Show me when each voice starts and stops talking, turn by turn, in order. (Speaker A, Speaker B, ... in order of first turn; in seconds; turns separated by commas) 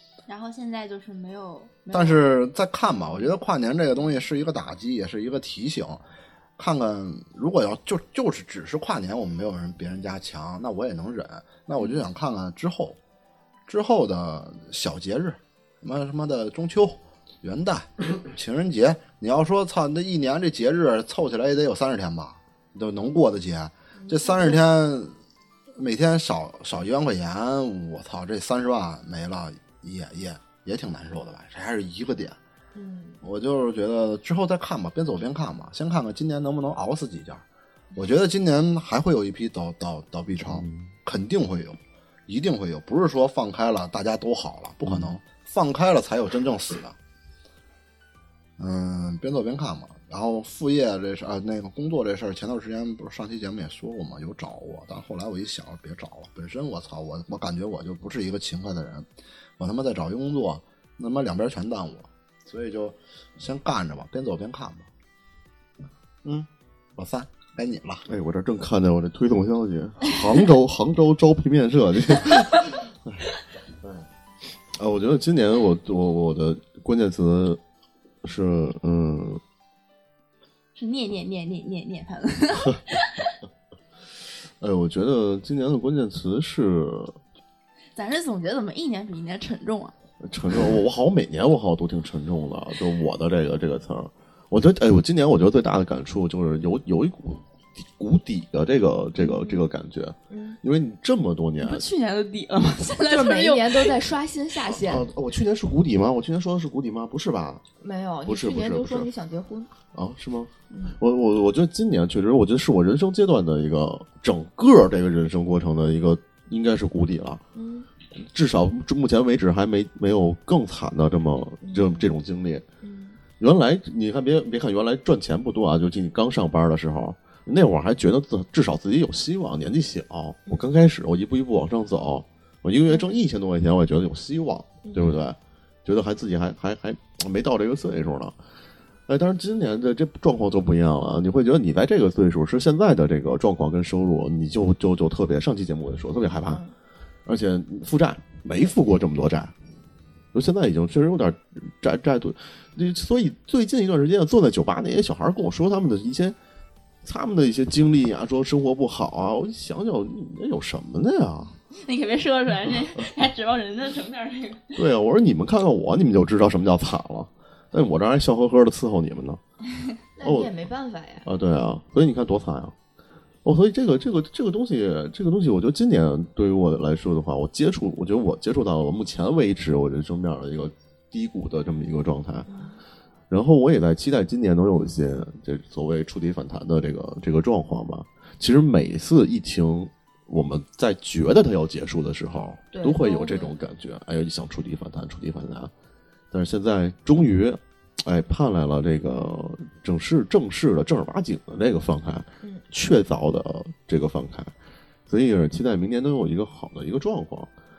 Speaker A: 0.3-2.3, Speaker B: 1.9-6.0, Speaker B: 6.6-13.0, Speaker B: 13.7-25.1, Speaker C: 23.9-24.6, Speaker B: 25.8-32.4, Speaker C: 32.7-33.2, Speaker B: 33.2-37.4, Speaker B: 38.0-47.0, Speaker D: 40.4-40.9, Speaker D: 44.8-45.1, Speaker B: 48.6-64.9, Speaker B: 66.2-68.0, Speaker D: 68.1-73.3, Speaker D: 74.7-77.6, Speaker D: 78.2-79.4, Speaker A: 80.8-83.3, Speaker D: 84.6-87.2, Speaker A: 87.9-89.9, Speaker D: 90.2-101.8, Speaker C: 99.2-99.6, Speaker C: 100.3-100.6, Speaker A: 101.6-103.9, Speaker C: 103.0-105.1, Speaker D: 104.7-107.6, Speaker C: 107.8-109.7, Speaker D: 108.2-109.1, Speaker D: 109.9-117.4, Speaker C: 110.7-111.0, Speaker C: 117.5-117.9, Speaker D: 118.2-122.6, Speaker C: 121.6-122.1, Speaker C: 122.8-123.2, Speaker D: 123.4-138.3, Speaker C: 134.8-135.1, Speaker D: 139.1-146.6, Speaker C: 146.4-146.7, Speaker D: 147.2-149.5, Speaker D: 150.3-156.3, Speaker D: 157.0-161.5, Speaker A: 161.8-164.8, Speaker D: 164.8-169.4, Speaker C: 170.2-171.2, Speaker D: 170.2-170.5, Speaker D: 171.2-172.7, Speaker D: 173.4-182.5, Speaker C: 182.5-182.8, Speaker D: 183.3-195.7, Speaker C: 192.7-193.5, Speaker D: 196.3-204.5, Speaker D: 205.1-207.5